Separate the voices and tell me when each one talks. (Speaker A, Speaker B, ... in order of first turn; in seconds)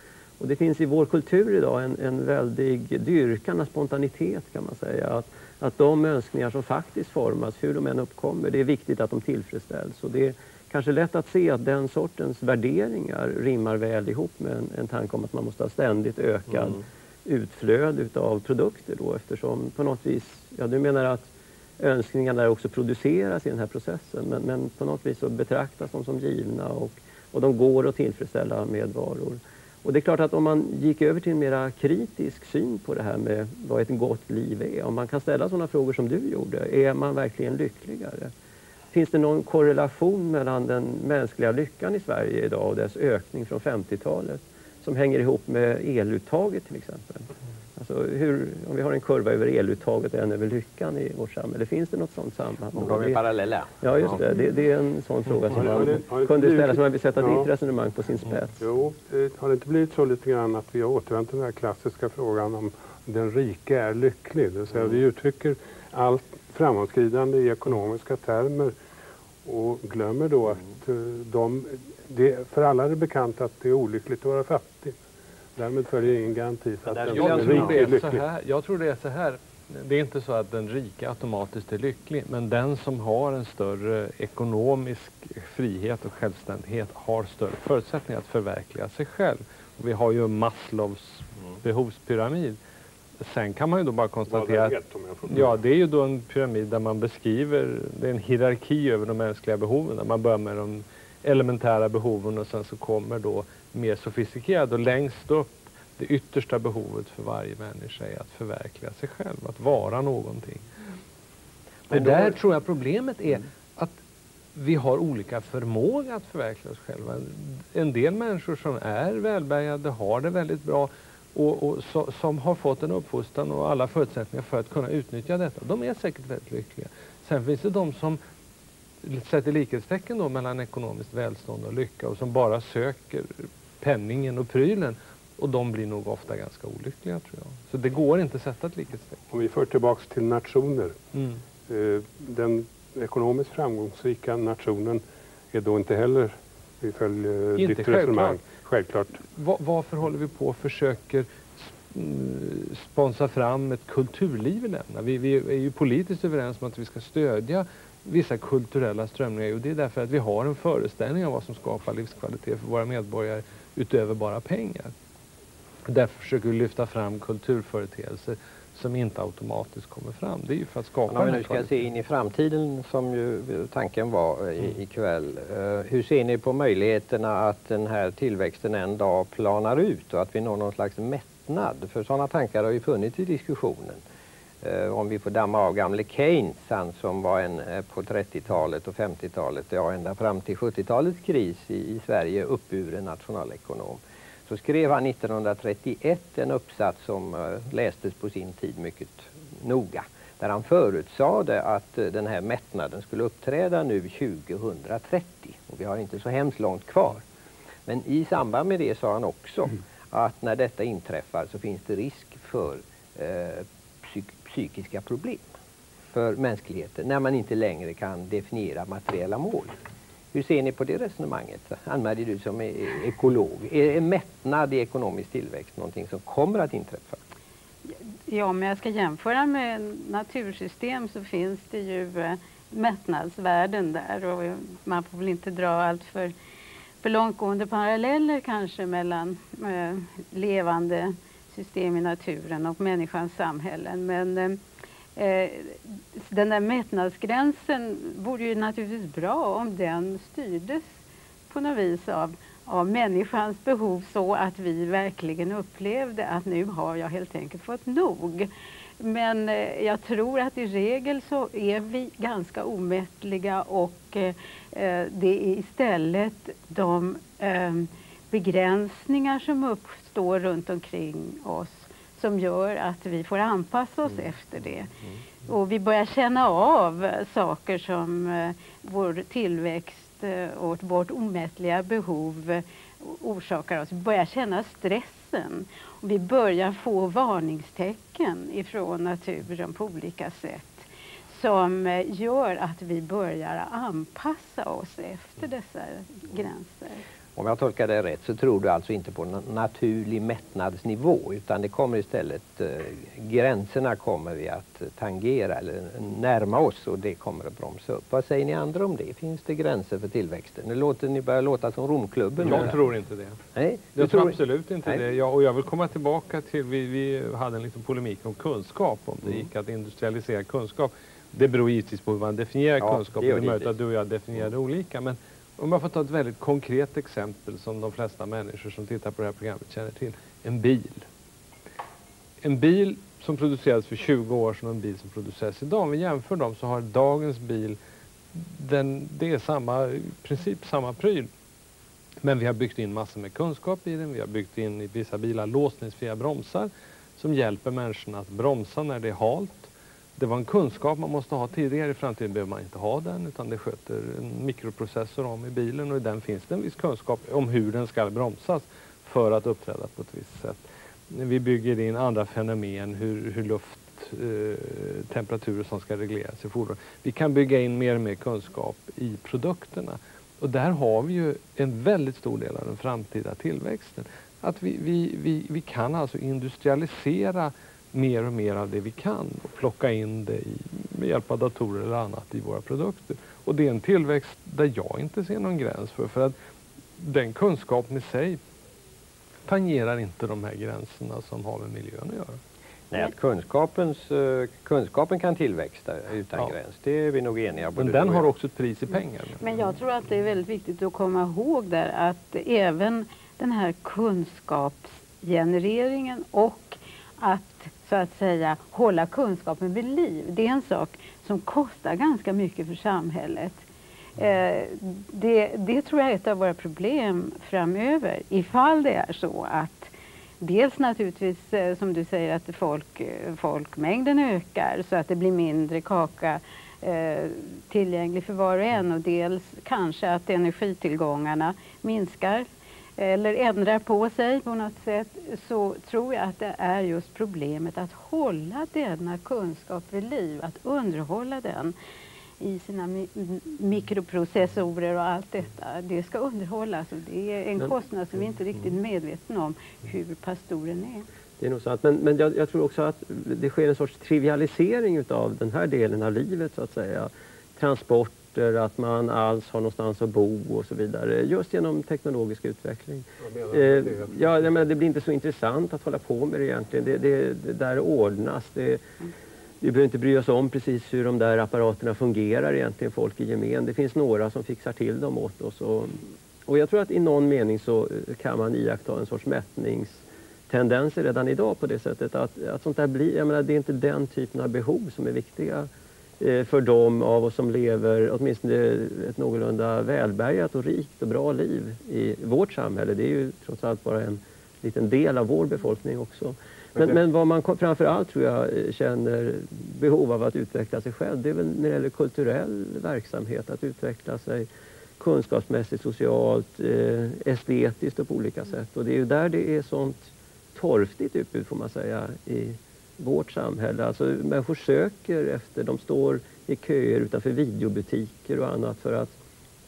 Speaker A: 0.4-38.3, 38.9-53.2, 53.8-58.6, 451.4-468.8, 469.6-504.5, 505.0-519.2
Speaker B: 52.7-54.2, 76.9-78.0, 111.9-112.4, 171.1-184.0, 184.6-207.2, 207.9-215.5, 216.1-219.8, 220.3-227.2, 297.4-312.8, 313.6-315.0, 322.8-323.7, 392.9-398.3
Speaker C: 55.5-57.5, 58.6-68.7, 69.5-75.0, 75.6-78.2, 94.3-95.6, 139.3-140.9, 141.7-149.2, 463.2-464.5
Speaker D: 77.1-92.6, 93.2-94.8, 95.3-110.7, 111.9-114.0, 114.5-128.2, 129.0-139.2, 141.1-141.4, 147.6-148.4, 149.3-164.9, 165.9-171.7, 312.4-313.4, 314.0-331.1, 332.4-337.8, 338.3-341.3, 342.2-386.4, 387.0-388.4, 389.5-392.4, 397.8-399.4
Speaker E: 228.3-236.3, 237.0-244.6, 245.2-250.9, 251.5-258.5, 259.0-274.9, 275.4-297.0, 399.4-413.6, 414.2-432.5, 433.0-441.7, 442.4-451.1